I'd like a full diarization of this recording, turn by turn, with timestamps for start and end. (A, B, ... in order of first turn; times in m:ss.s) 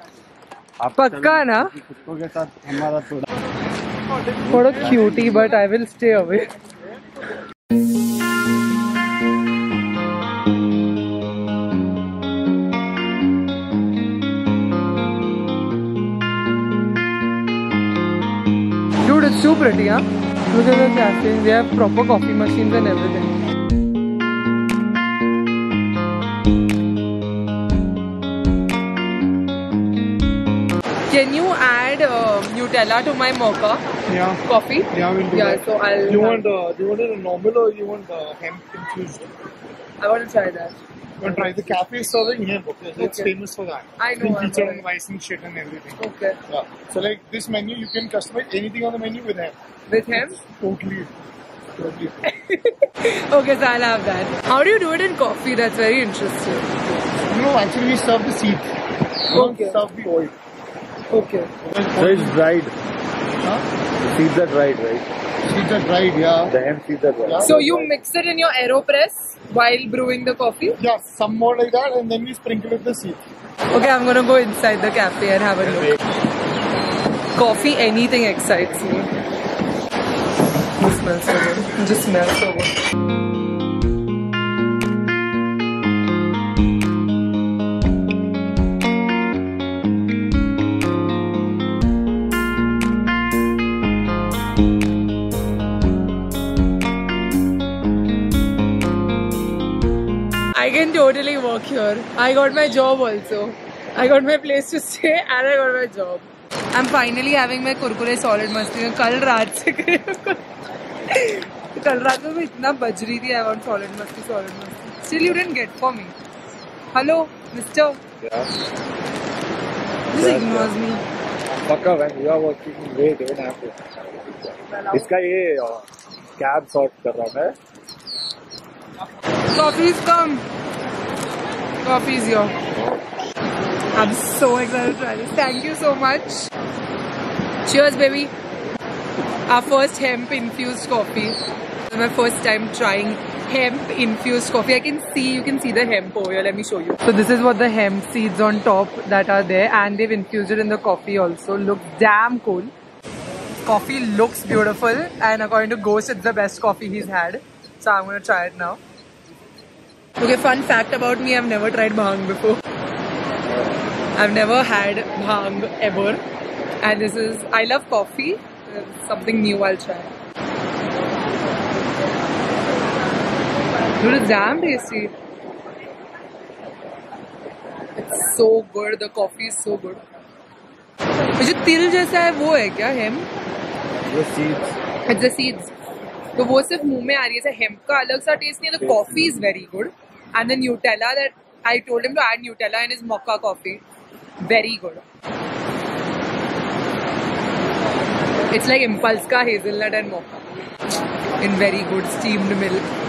0:00.8-0:03.3 A
0:00.9-0:01.8 B
0:04.4-0:05.4 A
0:04.4-0:06.5 B
0:19.0-0:23.4 B
0:31.1-0:33.9 B
0:34.1-0:34.4 C
0:34.4-0:36.4 B
0:34.9-0:39.3 C
0:40.0-0:41.7 B
0:41.2-0:49.5 C
0:43.0-0:43.3 B
0:44.0-0:44.8 B
0:46.0-0:46.4 B
0:49.9-0:50.4 B
0:50.1-0:51.1 C
0:51.8-0:52.1 C
0:52.2-0:56.7 B
0:57.3-0:58.7 C
0:59.3-1:00.4 C
0:59.3-0:59.8 B
1:01.1-1:01.5 B
1:01.6-1:02.4 C
1:02.0-1:02.7 A
1:04.0-1:05.1 A
1:05.5-1:06.5 C
1:06.5-1:07.9 A
1:07.3-1:07.8 C
1:07.4-1:10.8 B
1:10.8-1:13.2 C
1:13.7-1:15.9 B
1:15.7-1:15.9 A
1:17.3-1:19.1 B
1:20.8-1:22.7 B
1:40.5-1:50.4 B
1:51.1-1:56.2 B
1:56.9-1:58.0 B
1:58.2-1:58.5 A
2:00.1-2:01.0 B
2:00.1-2:00.8 A
2:01.6-2:03.8 A
2:04.7-2:05.1 B
2:04.9-2:07.6 A
2:09.5-2:10.4 B
2:11.8-2:12.6 B
2:13.9-2:16.5 B
2:17.7-2:18.3 B
2:19.5-2:32.7 B
2:33.6-2:38.8 B
2:40.2-2:42.6 B
2:44.2-2:46.2 B
2:46.8-2:50.1 B
2:54.0-2:55.1 B
2:58.0-3:00.0 B
3:01.4-3:03.3 B
3:04.0-3:04.8 A
3:05.1-3:05.7 B
3:06.4-3:13.8 B
3:08.8-3:09.4 A
3:14.4-3:15.0 B
3:18.5-3:20.4 B
3:21.4-3:22.9 B